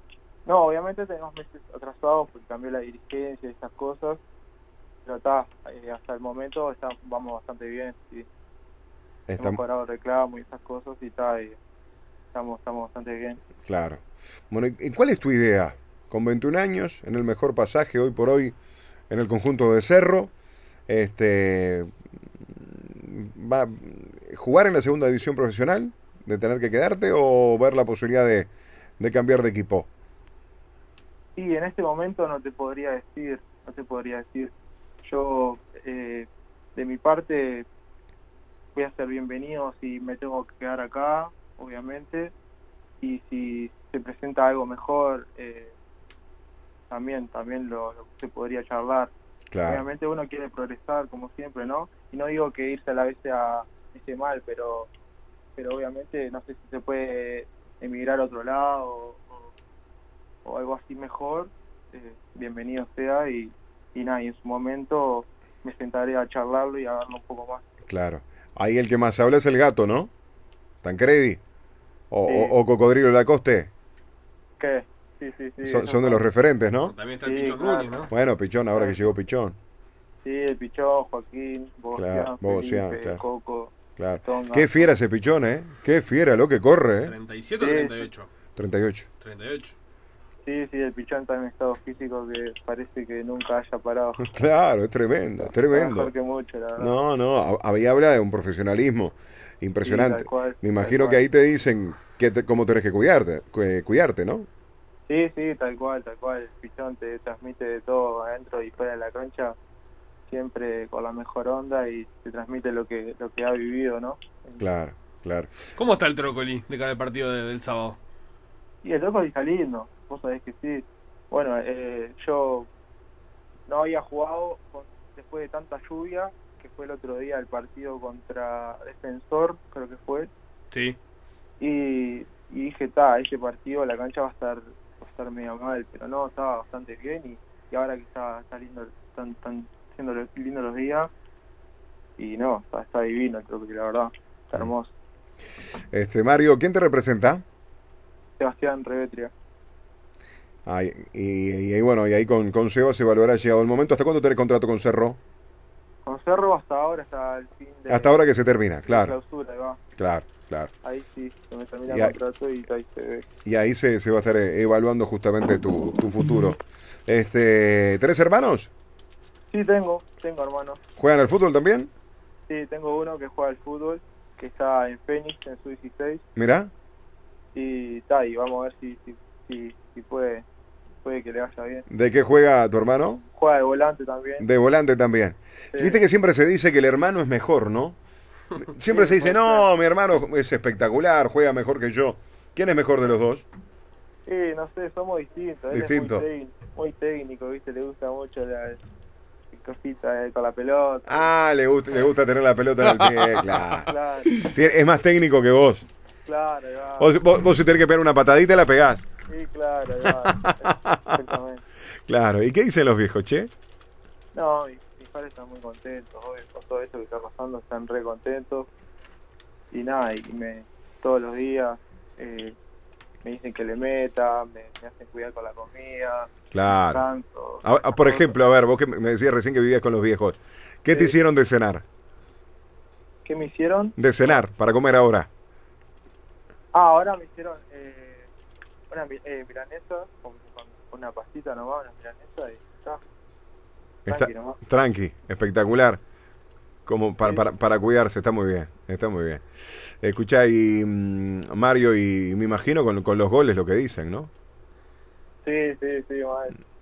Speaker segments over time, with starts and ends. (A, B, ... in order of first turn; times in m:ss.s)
0:00.4-0:04.2 A
0:05.0-0:08.3 A
0:09.3-0:09.6 B
0:09.4-0:11.6 A
0:12.3-0:13.4 A
0:13.6-0:18.5 B
0:19.1-0:20.3 B
0:20.9-0:21.9 B
0:22.4-0:29.9 B
0:31.4-0:34.5 A
0:35.0-0:37.7 A
0:38.7-0:42.3 A
0:43.0-0:45.7 A
0:46.9-0:49.1 A
0:49.5-0:49.8 B
0:49.6-0:54.9 A
0:55.6-0:59.5 A
1:00.4-1:07.6 A
1:07.9-1:10.1 B
1:10.8-1:11.4 B
1:12.1-1:13.7 B
1:12.2-1:12.6 A
1:14.6-1:16.2 A
1:15.6-1:16.9 B
1:16.9-1:18.1 C
1:17.2-1:18.1 A
1:18.1-1:19.6 B
1:20.2-1:24.9 A
1:21.9-1:23.2 B
1:24.0-1:27.1 B
1:27.0-1:28.3 C
1:27.6-1:27.9 A
1:28.6-1:29.1 B
1:29.2-1:29.7 C
1:30.4-1:34.2 A
1:34.2-1:36.1 B
1:35.5-1:36.9 A
1:36.8-1:44.5 B
1:39.8-1:41.2 A
1:45.1-1:49.6 A
1:50.3-1:54.6 A
1:54.6-1:55.5 B
1:55.8-1:58.0 C
1:58.8-2:02.7 A
2:03.7-2:10.3 A
2:10.7-2:11.0 C
2:11.6-2:21.1 A
2:22.2-2:24.9 A
2:25.9-2:27.4 B
2:28.4-2:29.3 A
2:30.6-2:35.2 B
2:36.0-2:38.2 A
2:37.9-2:39.1 B
2:38.9-2:39.8 A
2:40.0-2:40.7 B
2:40.8-2:43.2 A
2:41.9-2:42.2 B
2:43.4-2:48.7 B
2:49.5-2:50.8 A
2:51.0-2:51.9 B
2:52.5-2:56.2 A
2:56.4-2:56.7 B
2:57.5-3:00.4 A
3:01.0-3:01.8 A
3:01.9-3:03.2 B
3:03.4-3:04.4 A
3:04.4-3:08.0 B
3:08.5-3:13.4 B
3:08.9-3:09.7 A
3:14.2-3:18.8 A
3:15.7-3:16.2 B
3:19.5-3:21.3 A
3:21.0-3:25.9 B
3:23.7-3:24.5 A
3:26.2-3:27.1 A
3:27.0-3:29.0 B
3:29.3-3:31.6 A
3:30.1-3:31.2 B
3:32.1-3:33.5 B
3:34.3-3:38.7 A
3:39.7-3:42.6 A
3:43.2-3:46.3 A
3:46.5-3:47.0 B
3:46.9-3:48.3 A
3:47.6-3:51.8 B
3:53.2-3:54.0 A
3:54.0-3:55.3 B
3:56.7-3:58.3 A
3:58.9-4:03.0 A
4:04.0-4:06.0 B
4:04.1-4:04.6 A
4:06.8-4:14.3 B
4:15.4-4:16.6 A